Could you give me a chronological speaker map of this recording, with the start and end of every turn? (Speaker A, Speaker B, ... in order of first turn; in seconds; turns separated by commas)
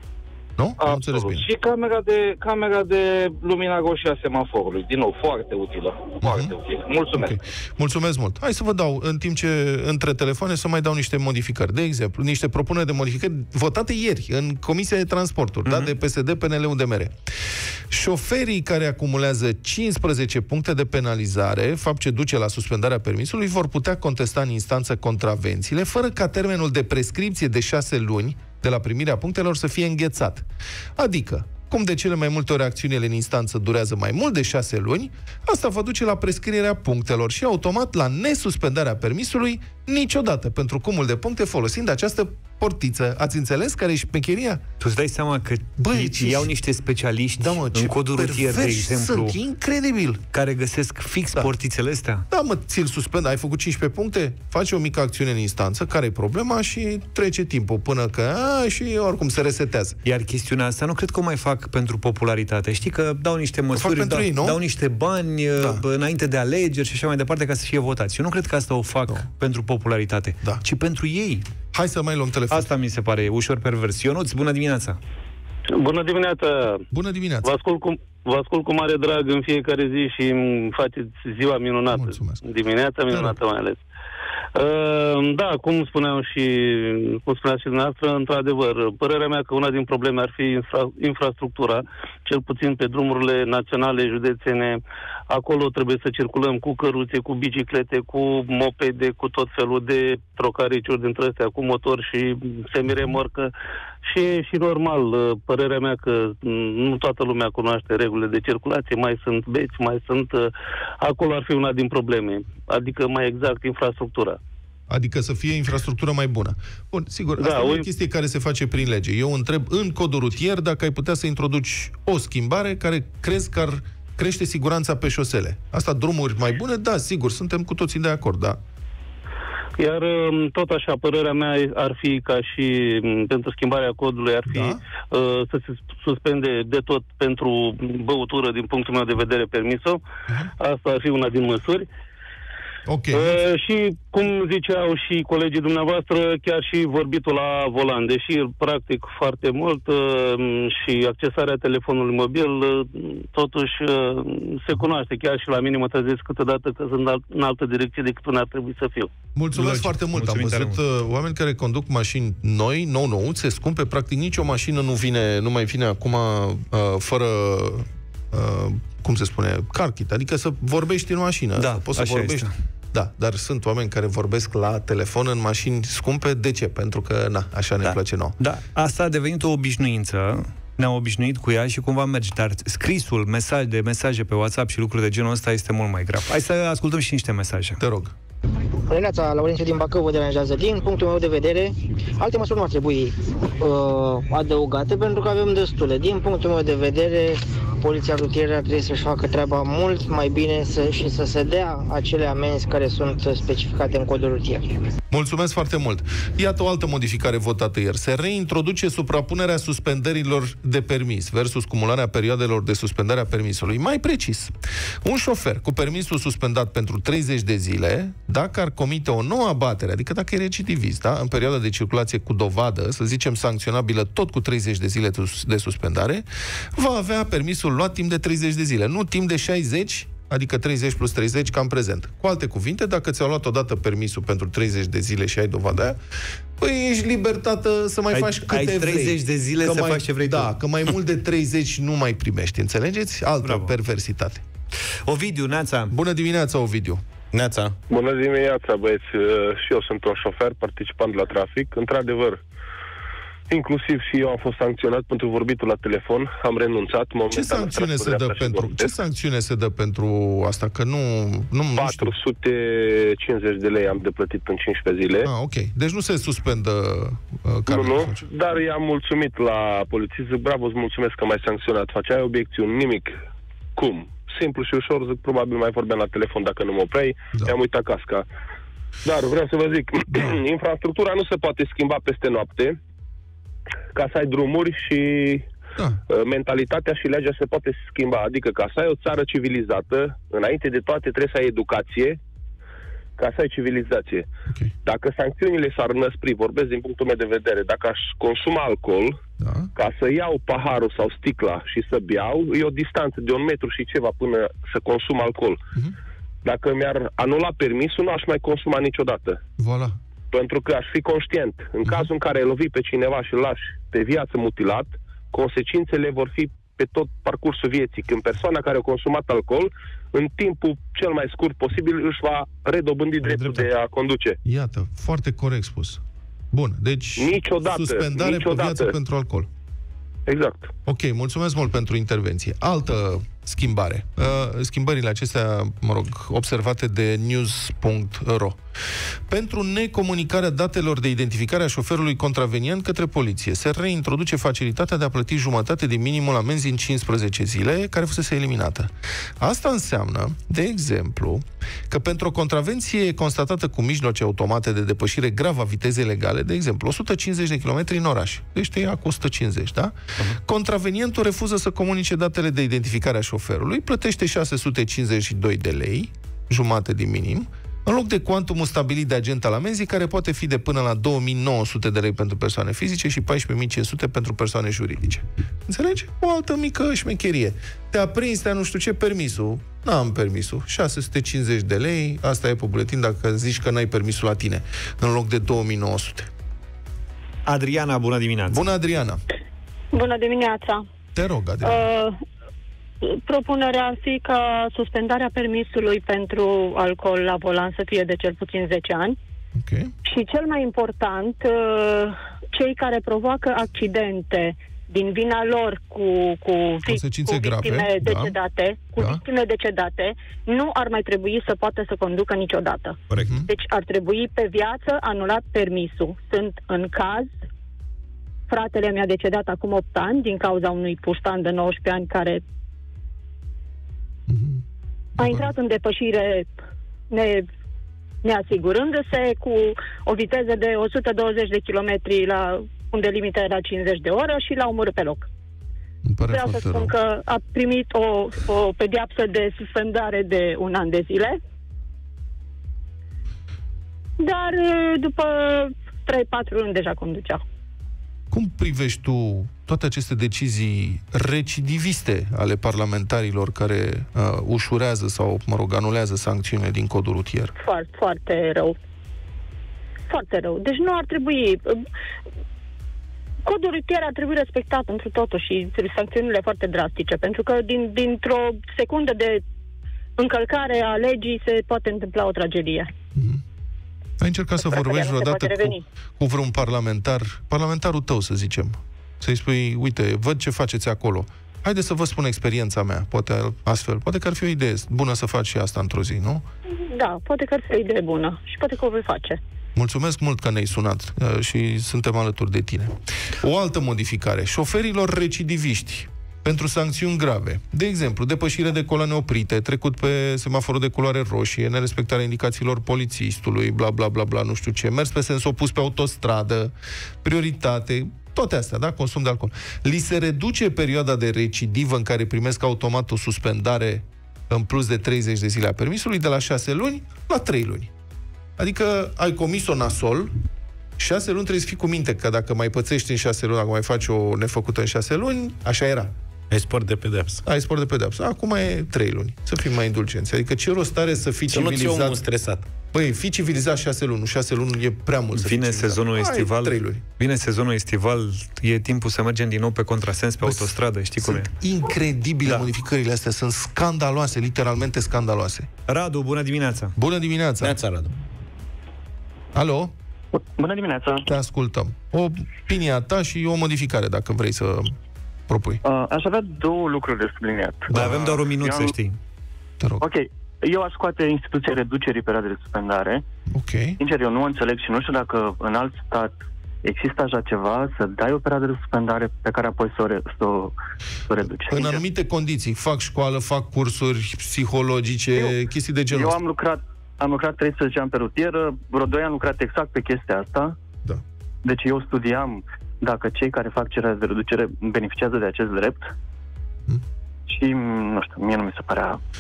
Speaker A: 0.6-1.5, Speaker B: 0.8-7.3, Speaker A: 6.2-6.5, Speaker A: 7.1-17.1, Speaker C: 15.7-15.9, Speaker A: 17.9-30.5, Speaker A: 31.0-44.6, Speaker C: 44.8-49.4, Speaker A: 45.8-46.5, Speaker A: 47.4-50.2, Speaker C: 50.3-52.3, Speaker A: 52.3-60.0, Speaker C: 60.0-71.5, Speaker A: 63.7-64.6, Speaker A: 65.6-65.8, Speaker A: 71.7-72.7, Speaker C: 72.5-75.0, Speaker D: 75.8-76.8, Speaker A: 76.9-77.5, Speaker D: 77.4-83.8, Speaker A: 81.9-82.5, Speaker A: 83.1-83.4, Speaker D: 84.5-103.5, Speaker D: 104.1-114.4, Speaker A: 114.9-128.6, Speaker D: 117.4-117.9, Speaker D: 129.8-140.0, Speaker A: 134.5-134.8, Speaker D: 140.6-141.9, Speaker A: 142.9-143.4, Speaker D: 143.2-159.1, Speaker A: 159.3-178.4, Speaker C: 159.5-160.8, Speaker C: 171.6-172.5, Speaker C: 177.8-187.8, Speaker A: 187.8-188.1, Speaker E: 188.9-204.7, Speaker A: 205.1-214.5, Speaker A: 215.0-226.2, Speaker A: 226.8-236.0, Speaker A: 236.6-244.4, Speaker C: 238.1-240.5, Speaker C: 243.4-243.7, Speaker C: 245.1-245.9, Speaker A: 245.9-247.0, Speaker F: 247.3-247.8, Speaker G: 247.9-252.4, Speaker G: 253.5-258.9, Speaker A: 257.3-262.1, Speaker G: 261.8-265.3, Speaker A: 265.2-268.2, Speaker G: 267.7-273.1, Speaker G: 273.8-278.3, Speaker G: 279.0-282.8, Speaker A: 280.1-280.4, Speaker G: 283.9-285.5, Speaker G: 286.1-292.2, Speaker G: 293.2-294.3, Speaker G: 294.9-299.2, Speaker A: 299.4-299.7, Speaker G: 299.8-305.6, Speaker G: 306.4-309.4, Speaker A: 309.6-309.9, Speaker G: 310.3-324.4, Speaker A: 323.2-323.7, Speaker A: 324.4-329.5, Speaker G: 327.2-328.9, Speaker G: 330.3-330.7, Speaker A: 330.9-338.6, Speaker A: 339.3-386.3, Speaker C: 387.4-388.7, Speaker A: 388.5-389.2, Speaker H: 389.9-390.8, Speaker A: 391.1-391.9, Speaker H: 391.6-392.1, Speaker H: 393.0-399.2, Speaker A: 399.6-399.9, Speaker H: 400.1-417.3, Speaker A: 406.9-408.4, Speaker H: 418.5-422.4, Speaker A: 424.3-424.6, Speaker H: 425.2-426.5, Speaker A: 425.2-425.5, Speaker H: 427.1-427.5, Speaker H: 428.2-435.3, Speaker A: 436.1-436.9, Speaker H: 436.3-441.4, Speaker H: 444.2-447.4, Speaker A: 448.3-457.5, Speaker H: 457.6-458.8, Speaker H: 460.1-461.8, Speaker H: 463.4-469.4, Speaker H: 470.2-472.9, Speaker A: 473.2-473.4, Speaker A: 474.2-486.4, Speaker H: 474.6-475.8, Speaker H: 486.9-489.4, Speaker A: 489.8-517.9, Speaker A: 518.6-520.3, Speaker A: 521.0-526.1, Speaker F: 526.5-527.4, Speaker A: 527.5-532.3, Speaker F: 531.5-532.6, Speaker A: 532.9-537.0, Speaker C: 535.4-541.5, Speaker A: 540.4-545.7, Speaker C: 545.9-546.9, Speaker A: 547.0-547.8, Speaker F: 547.6-548.1, Speaker A: 549.5-549.9, Speaker I: 550.3-551.3, Speaker A: 551.2-554.9, Speaker A: 555.5-555.8, Speaker I: 555.9-559.0, Speaker A: 557.9-558.1, Speaker C: 557.9-559.2, Speaker I: 560.0-563.2, Speaker A: 563.5-564.0, Speaker I: 564.0-570.8, Speaker I: 571.3-572.0, Speaker A: 571.7-576.4, Speaker I: 576.1-580.8, Speaker I: 581.6-586.1, Speaker I: 587.5-589.2